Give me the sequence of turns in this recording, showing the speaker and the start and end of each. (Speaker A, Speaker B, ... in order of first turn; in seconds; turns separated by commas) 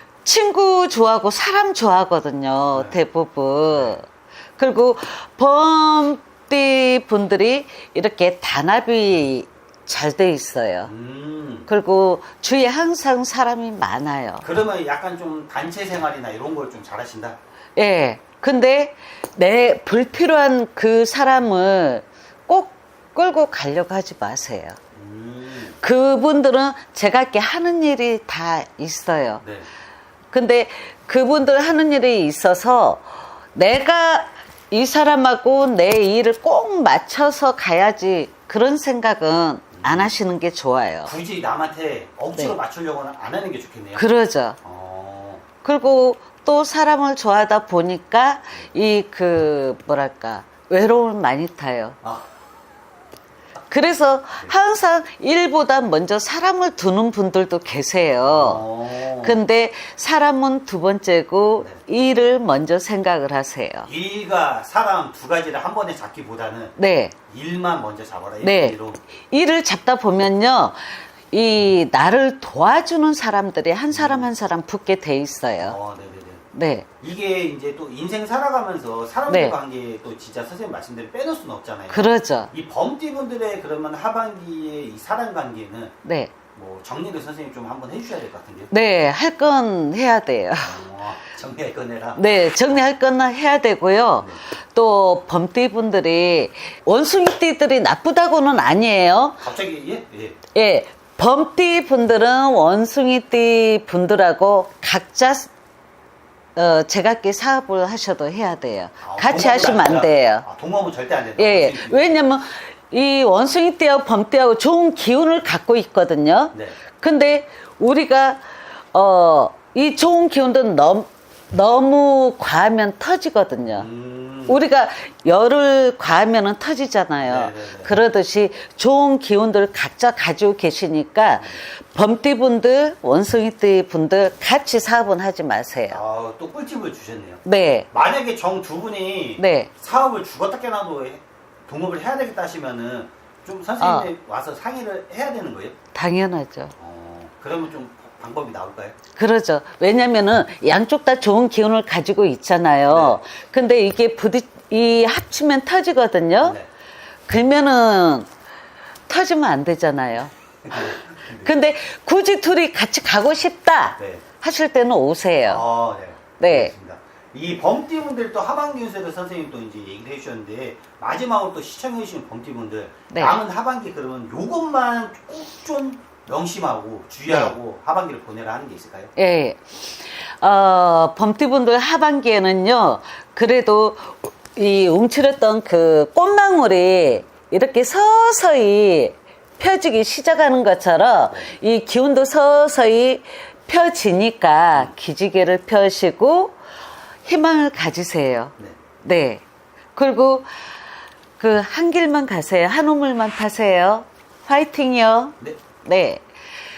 Speaker A: 0.2-4.0, Speaker B: 2.7-3.0, Speaker B: 3.7-4.0, Speaker A: 4.6-10.9, Speaker B: 10.8-11.7, Speaker A: 11.7-14.4, Speaker B: 14.4-17.4, Speaker A: 17.8-24.8, Speaker B: 24.9-25.8, Speaker A: 25.8-29.4, Speaker A: 30.3-41.1, Speaker B: 39.7-40.1, Speaker B: 41.0-44.1, Speaker A: 44.0-44.6, Speaker B: 44.6-45.4, Speaker A: 45.6-52.0, Speaker B: 52.0-52.3, Speaker A: 53.7-63.9, Speaker B: 58.2-59.4, Speaker B: 63.9-66.8, Speaker A: 66.8-67.2, Speaker B: 67.3-69.0, Speaker A: 68.4-75.8, Speaker B: 73.9-74.3, Speaker B: 75.6-76.4, Speaker A: 76.5-76.9, Speaker B: 77.0-85.9, Speaker A: 79.3-79.6, Speaker A: 81.9-82.5, Speaker A: 86.0-86.3, Speaker B: 86.5-88.7, Speaker A: 88.7-90.8, Speaker B: 90.6-92.8, Speaker A: 92.2-99.4, Speaker B: 99.4-100.4, Speaker A: 100.5-105.5, Speaker A: 106.5-110.4, Speaker B: 109.0-112.2, Speaker A: 111.4-118.4, Speaker A: 118.9-123.9, Speaker B: 123.7-124.6, Speaker A: 124.5-136.0, Speaker B: 127.2-128.0, Speaker B: 135.9-145.7, Speaker A: 137.4-137.9, Speaker A: 139.4-139.7, Speaker A: 143.8-144.1, Speaker A: 145.9-146.7, Speaker B: 146.8-148.9, Speaker A: 149.2-156.6, Speaker B: 152.9-153.2, Speaker B: 156.4-156.7, Speaker A: 157.3-158.3, Speaker A: 159.1-165.7, Speaker B: 160.6-161.5, Speaker B: 165.5-179.1, Speaker A: 166.4-166.7, Speaker A: 173.1-173.4, Speaker A: 177.3-177.5, Speaker A: 179.2-196.6, Speaker A: 197.2-199.4, Speaker A: 199.9-200.5, Speaker A: 201.4-206.2